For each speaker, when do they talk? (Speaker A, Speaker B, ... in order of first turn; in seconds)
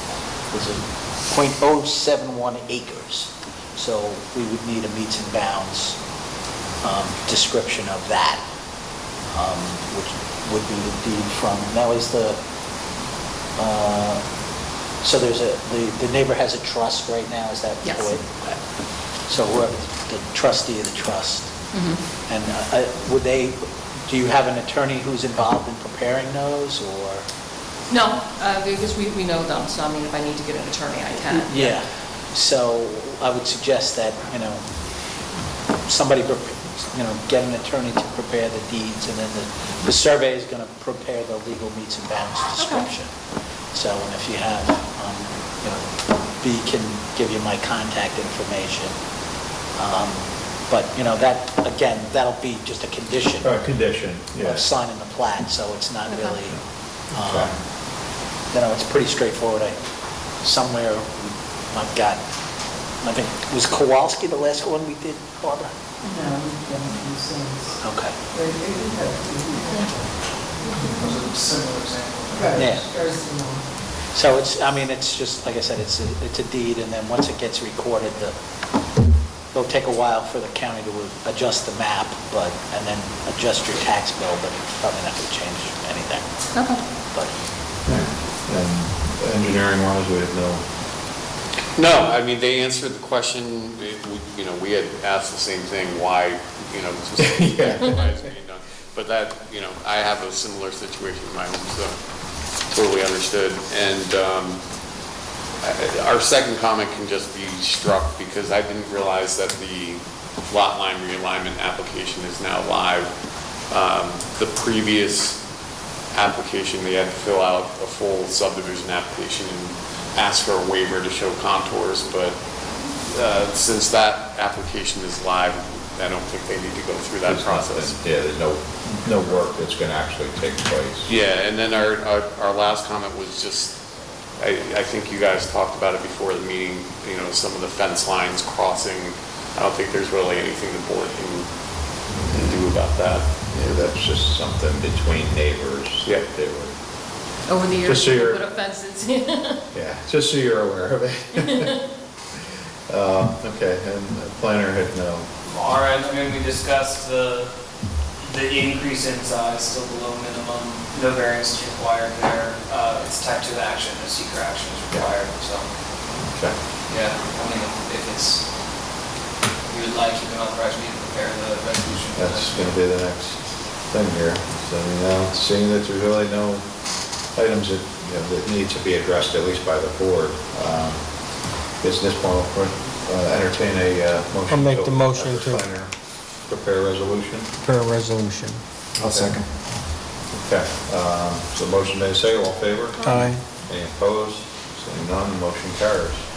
Speaker A: 0.5-6.0, 6.8-8.4, 9.3-12.4, 13.6-14.2, 15.0-18.6, 19.3-21.6, 22.3-27.3, 31.2-34.7, 35.8-43.1, 43.7-49.0, 49.8-53.5, 54.4-56.5, 57.1-57.6, 58.5-59.8, 60.4-62.2, 63.0-65.7, 67.8-68.2, 72.5-72.9, 74.1-78.4, 79.5-86.3
Speaker B: 17.8-18.1, 21.7-22.0, 27.9-31.8, 42.6-42.9, 56.1-56.4, 66.0-66.3, 69.6-69.9, 70.7-71.1, 86.5-86.8, 147.4-149.6, 151.5-151.8
Speaker C: 53.4-54.7, 57.1-57.5, 87.8-90.6, 97.2-98.0, 127.2-131.1, 143.5-146.7, 147.8-148.4, 149.7-151.8, 152.9-155.2, 166.2-166.6, 172.1-176.6, 177.3-181.1, 181.8-185.9, 186.4-187.5, 189.0-189.4, 190.3-196.2
Speaker D: 66.2-67.6, 68.4-69.7, 72.4-73.6
Speaker E: 70.9-72.9, 155.4-157.5, 158.2-165.7, 166.9-168.4, 169.7-172.8
Speaker F: 91.8-102.0, 102.7-104.6, 105.6-113.1, 113.7-115.4, 116.1-122.4, 123.0-128.0, 131.1-133.8, 134.4-141.5, 142.2-143.3
Speaker G: 184.5-185.6, 187.6-189.4, 193.0-193.4